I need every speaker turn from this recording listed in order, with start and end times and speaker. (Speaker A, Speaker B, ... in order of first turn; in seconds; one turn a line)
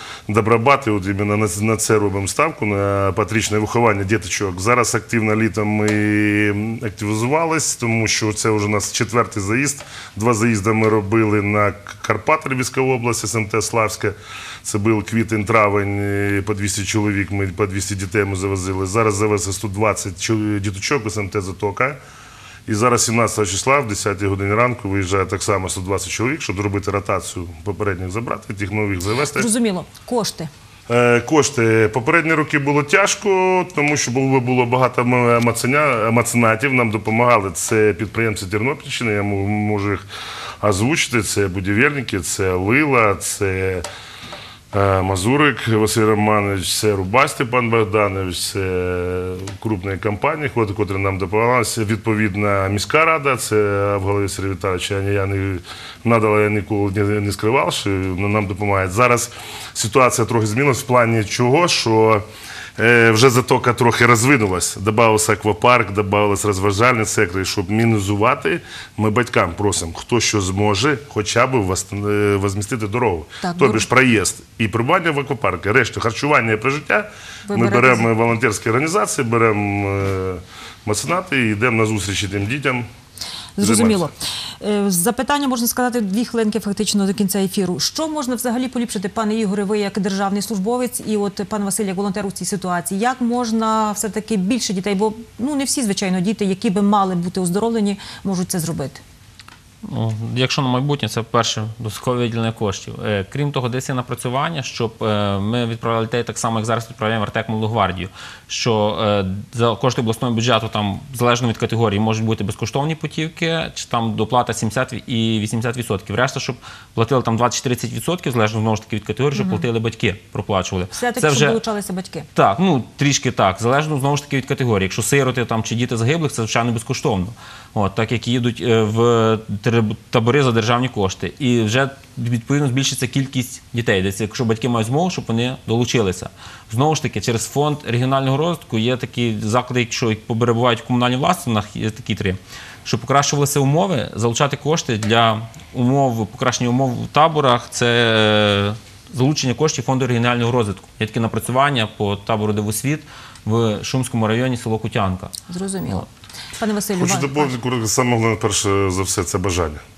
Speaker A: 0.3-22.0
Speaker A: 22.7-29.5
Speaker B: 29.4-30.5
Speaker A: 30.9-40.0
Speaker A: 40.6-43.9
Speaker A: 44.7-62.2
Speaker A: 62.8-82.9
Speaker B: 73.4-73.8
Speaker B: 77.5-78.1
Speaker B: 83.6-99.0
Speaker A: 83.6-84.1
Speaker C: 99.8-121.6
Speaker B: 119.3-119.7
Speaker B: 120.9-122.3
Speaker C: 122.3-155.3
Speaker B: 155.5-157.5
Speaker A: 157.0-159.8